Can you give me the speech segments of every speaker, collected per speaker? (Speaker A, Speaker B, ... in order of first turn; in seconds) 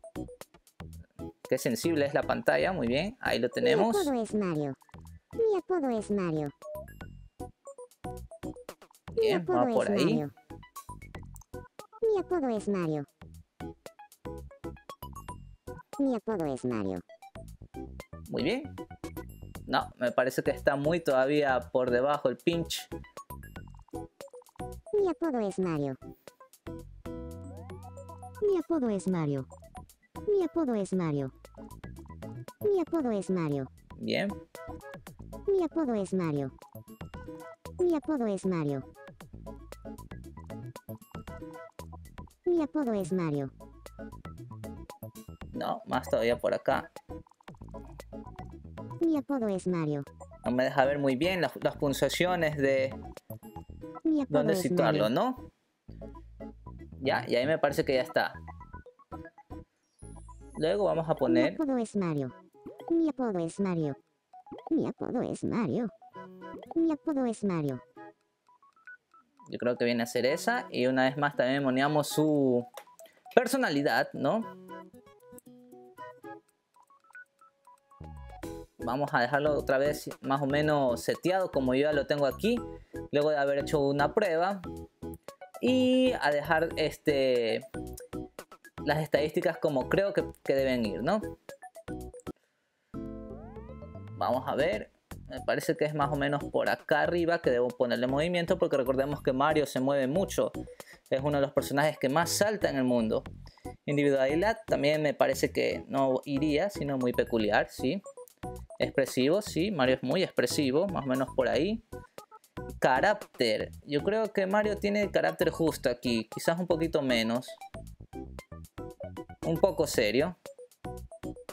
Speaker A: 1.5-4.1, 9.2-10.2, 18.3-18.7, 19.7-22.9, 34.0-34.4, 45.5-46.9, 50.4-53.0, 54.3-55.4, 57.0-58.4, 60.6-61.6, 69.5-72.7, 73.3-74.5, 78.8-84.6, 85.6-87.7, 88.8-91.2, 94.2-100.6, 101.1-103.3, 103.9-108.0, 108.8-111.8, 112.8-117.6, 119.4-120.4
Speaker B: 3.6-4.8, 5.4-6.5, 9.2-10.3, 12.0-13.1, 16.0-17.0, 24.9-26.0, 28.4-29.5, 30.3-31.3, 32.6-33.7, 35.5-36.5, 37.8-38.8, 42.5-43.5, 49.0-50.1, 54.0-55.1, 61.3-62.3, 62.9-64.0, 64.7-65.9, 66.8-67.8